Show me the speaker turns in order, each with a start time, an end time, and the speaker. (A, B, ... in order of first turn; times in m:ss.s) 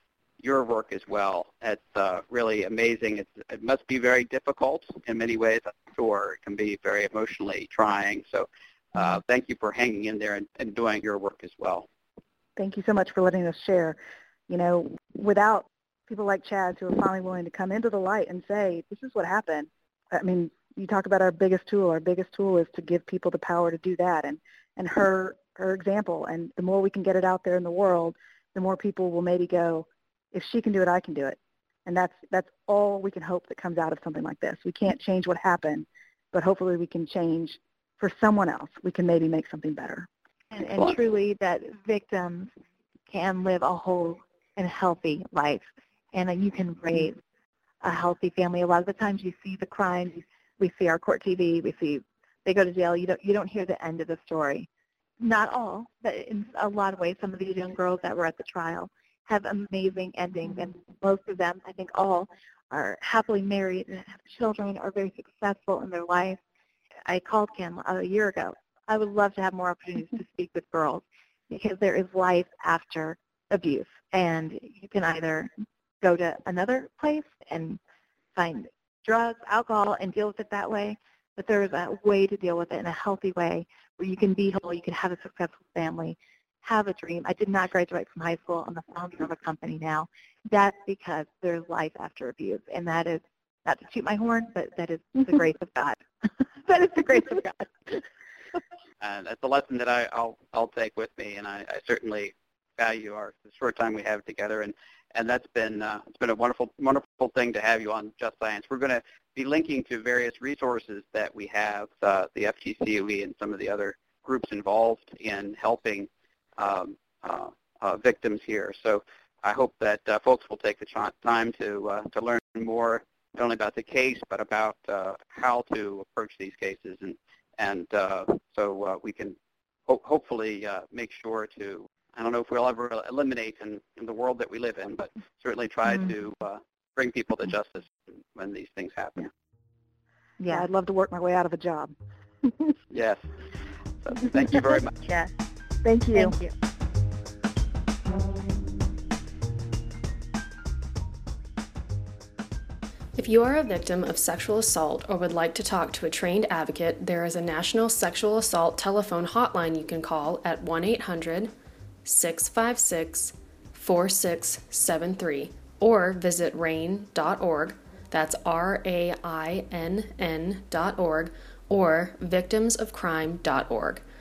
0:00.4-0:11.9 A
0:12.6-0:14.0 B
0:14.5-0:40.1 B
0:40.5-0:42.5 C
0:43.1-0:47.2 C
0:47.8-0:54.7 C
0:55.2-1:06.4 C
1:07.1-1:17.8 C
1:18.4-1:38.0 C
1:39.0-2:19.3 A
2:20.4-2:20.7 C
2:20.5-2:21.9 B
2:22.9-2:23.3 A
2:24.0-2:24.9 A
2:25.8-2:26.4 B
2:33.2-2:41.5 D
2:42.0-2:54.0 D